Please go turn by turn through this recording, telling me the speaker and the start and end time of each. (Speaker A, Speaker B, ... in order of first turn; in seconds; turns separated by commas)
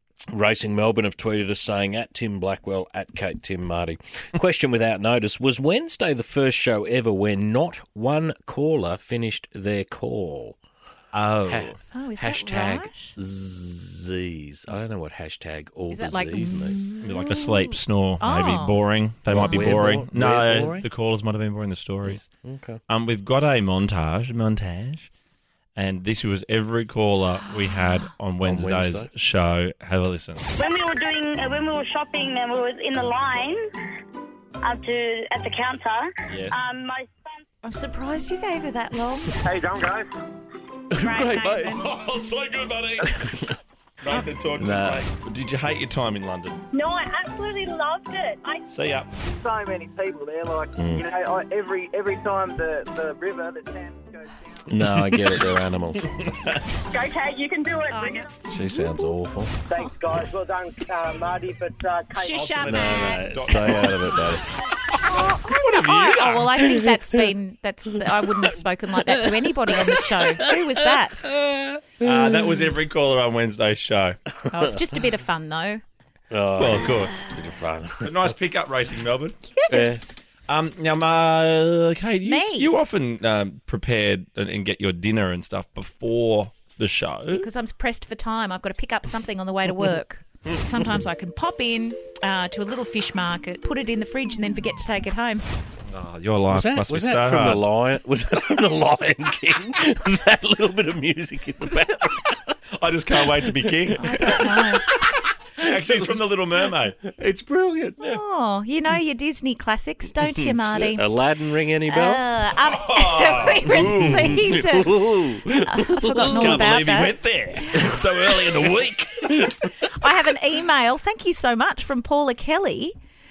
Speaker A: 0.3-10.6, Speaker B: 11.1-11.8, Speaker A: 11.5-16.9, Speaker C: 11.9-13.1, Speaker C: 15.9-19.8, Speaker B: 17.0-22.3, Speaker A: 19.3-20.9, Speaker A: 22.1-22.8, Speaker B: 22.9-25.1, Speaker B: 25.8-30.5, Speaker A: 28.4-29.1, Speaker D: 30.6-33.6, Speaker D: 34.6-37.4, Speaker B: 36.2-36.6, Speaker C: 37.6-39.5, Speaker E: 39.5-40.1, Speaker A: 40.9-41.8, Speaker C: 40.9-42.1, Speaker B: 41.6-43.3, Speaker A: 43.1-43.5, Speaker B: 44.0-46.6, Speaker A: 44.6-45.0, Speaker D: 46.7-48.6, Speaker B: 48.7-49.1, Speaker E: 49.4-54.5, Speaker A: 50.8-51.1, Speaker A: 54.7-56.3, Speaker B: 54.8-55.5, Speaker D: 56.9-58.3, Speaker C: 57.9-59.2, Speaker A: 58.5-59.6, Speaker E: 59.7-62.3, Speaker C: 62.1-63.9, Speaker B: 62.3-66.6, Speaker A: 62.6-64.4, Speaker C: 65.1-71.3, Speaker A: 66.7-67.2, Speaker A: 69.0-72.7, Speaker B: 72.0-74.2, Speaker C: 74.5-75.8, Speaker A: 76.3-78.3, Speaker B: 76.5-77.2, Speaker B: 78.0-79.4, Speaker C: 79.5-80.2, Speaker A: 79.7-80.0, Speaker B: 80.5-87.5, Speaker C: 82.2-82.7, Speaker C: 87.3-95.4, Speaker B: 95.9-97.7, Speaker A: 96.5-102.5, Speaker B: 102.8-104.5, Speaker A: 103.2-103.5, Speaker C: 104.0-104.8, Speaker A: 105.0-108.2, Speaker B: 105.6-107.0, Speaker C: 108.0-111.0, Speaker A: 110.2-112.2, Speaker C: 111.8-117.2, Speaker B: 112.6-114.4, Speaker A: 113.7-116.8, Speaker B: 116.3-119.5, Speaker C: 119.8-122.9